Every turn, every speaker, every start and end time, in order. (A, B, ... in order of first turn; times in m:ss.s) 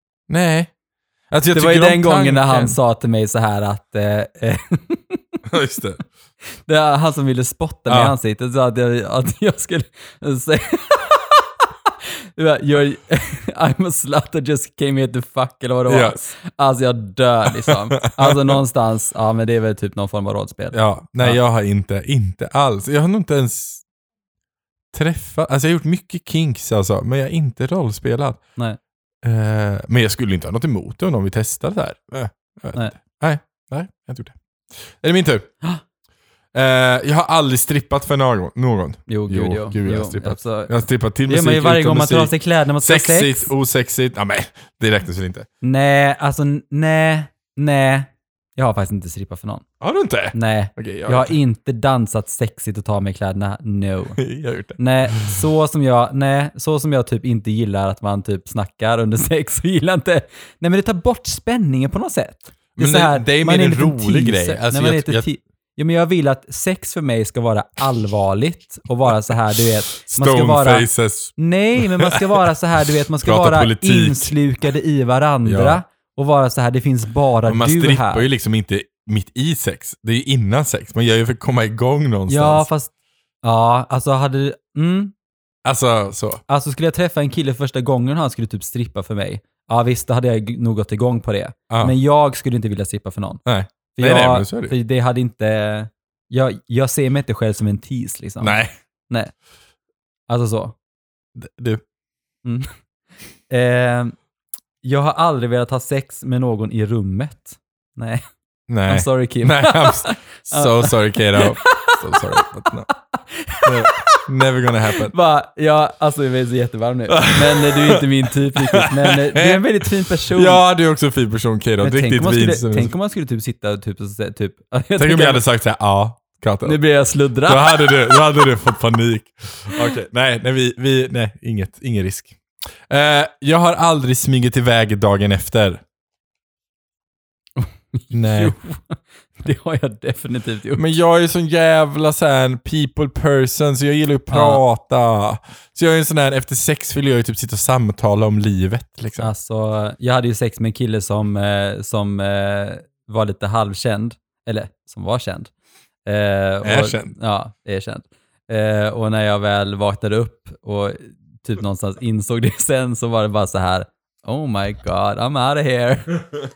0:00.3-0:00.7 A
0:01.3-0:02.8 A
0:01.5-0:05.4 B
0:05.5-0:06.0 A
0:06.6-0:21.4 B
0:07.9-0:08.1 A
0:15.9-0:16.3 A
0:17.6-0:18.6 A
0:20.7-0:23.8 A
0:24.9-0:28.4 A
0:29.2-0:35.5 A
0:36.5-0:45.5 A
0:39.1-0:40.7 B
0:41.3-0:43.5 B
0:45.6-0:49.6 B
0:49.8-0:51.4 A
0:50.3-0:54.2 B
0:54.2-0:55.4 A
0:54.8-1:18.2 B
1:02.8-1:05.2 A
1:09.6-1:12.4 A
1:13.2-1:14.3 A
1:15.4-1:15.8 A
1:17.5-1:22.7 A
1:22.3-1:22.9 B
1:23.4-1:25.1 B
1:25.6-1:26.4 A
1:26.5-1:33.4 B
1:31.7-1:31.9 A
1:33.4-1:34.7 A
1:33.9-1:38.6 B
1:38.4-1:38.7 A
1:39.1-1:39.3 B
1:40.3-1:40.7 B
1:41.3-1:41.8 A
1:42.4-1:42.7 B
1:43.5-1:44.2 B
1:44.8-1:48.2 B
1:48.7-1:52.9 A
1:48.9-1:54.2 B
1:53.6-1:55.1 A
1:54.9-2:00.6 B
1:57.1-1:58.0 A
1:58.5-1:59.6 A
2:00.3-2:02.9 A
2:01.8-2:05.4 B
2:05.0-2:06.8 A
2:06.6-2:08.2 B
2:07.4-2:12.4 A
2:12.9-2:15.8 A
2:17.6-2:20.8 B
2:18.1-2:18.5 A
2:20.8-2:29.3 A
2:24.3-2:24.6 B
2:29.2-2:35.5 B
2:36.0-2:46.2 B
2:36.6-2:37.1 A